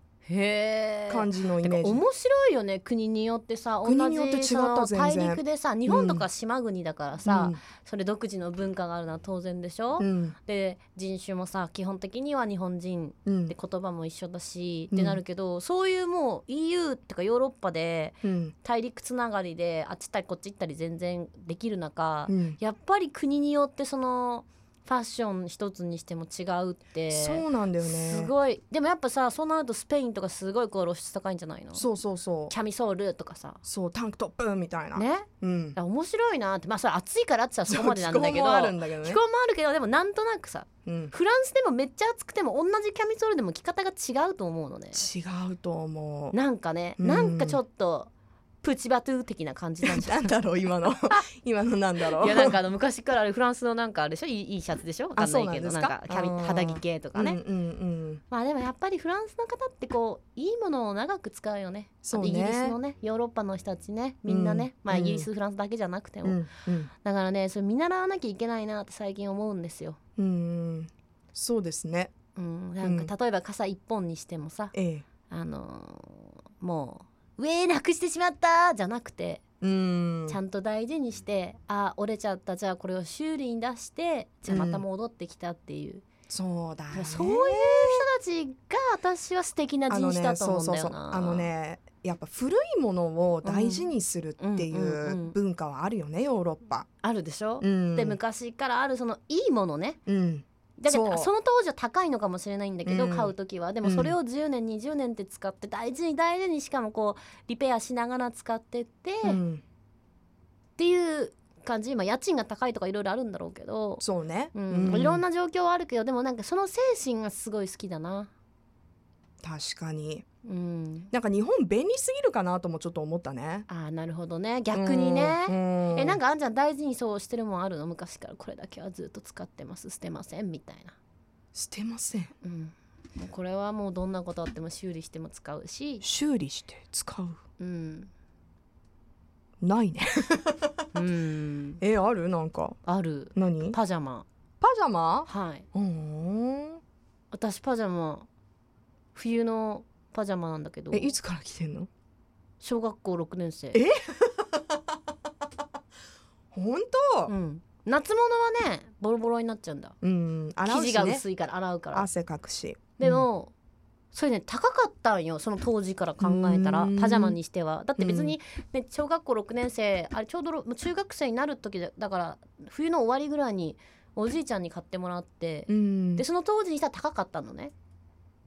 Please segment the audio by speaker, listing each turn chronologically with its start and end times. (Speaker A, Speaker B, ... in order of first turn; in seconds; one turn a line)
Speaker A: 0.3-31.9
Speaker B: 1.1-2.0
Speaker B: 3.8-6.3
Speaker B: 7.2-7.6
Speaker B: 10.0-10.3
Speaker B: 13.3-13.5
Speaker B: 14.9-15.2
Speaker B: 18.2-18.5
Speaker B: 22.3-22.6
Speaker B: 27.1-28.3
Speaker B: 31.7-32.5
Speaker A: 32.5-33.6
Speaker B: 33.6-35.8
Speaker A: 35.0-45.0
Speaker B: 37.7-39.2
Speaker B: 40.9-41.1
Speaker B: 44.9-46.4
Speaker A: 46.3-48.1
Speaker B: 47.0-47.6
Speaker A: 48.6-50.4
Speaker B: 49.8-52.6
Speaker A: 52.0-57.4
Speaker B: 55.2-58.2
Speaker A: 58.3-66.4
Speaker B: 62.0-62.8
Speaker B: 64.3-65.3
Speaker B: 66.2-66.9
Speaker A: 67.0-70.0
Speaker B: 70.2-72.1
Speaker A: 72.4-74.7
Speaker B: 72.8-73.1
Speaker B: 74.7-75.1
Speaker A: 75.3-79.4
Speaker B: 79.6-80.4
Speaker A: 80.3-86.0
Speaker B: 84.5-84.8
Speaker B: 86.3-88.0
Speaker A: 86.9-91.5
Speaker B: 89.9-96.9
Speaker A: 93.4-95.4
Speaker A: 97.0-100.0
Speaker B: 97.6-98.2
Speaker B: 100.1-101.3
Speaker A: 100.8-109.4
Speaker B: 102.8-104.2
Speaker B: 109.2-109.6
Speaker A: 110.8-114.0
Speaker B: 114.0-115.2
Speaker A: 114.5-118.3
Speaker B: 119.4-120.3
Speaker A: 120.5-121.1
Speaker B: 121.1-123.7
Speaker A: 123.7-131.0
Speaker B: 124.7-126.2
Speaker B: 131.5-132.3
Speaker A: 132.4-136.1
Speaker B: 136.0-137.4
Speaker A: 137.6-138.1
Speaker B: 139.6-140.9
Speaker A: 140.9-141.8
Speaker B: 141.8-142.8
Speaker A: 142.9-144.3
Speaker B: 143.3-143.8
Speaker B: 144.6-146.8
Speaker A: 145.3-145.7
Speaker A: 147.3-148.3
Speaker A: 149.2-151.2
Speaker B: 150.9-151.9
Speaker A: 152.6-153.8
Speaker B: 153.7-154.8
Speaker B: 156.5-157.3
Speaker A: 157.3-159.9
Speaker B: 160.0-161.2
Speaker A: 160.7-162.1
Speaker B: 161.9-163.2
Speaker A: 163.0-163.5
Speaker A: 164.1-177.7
Speaker B: 166.2-167.4
Speaker B: 168.0-168.3
Speaker B: 175.7-176.2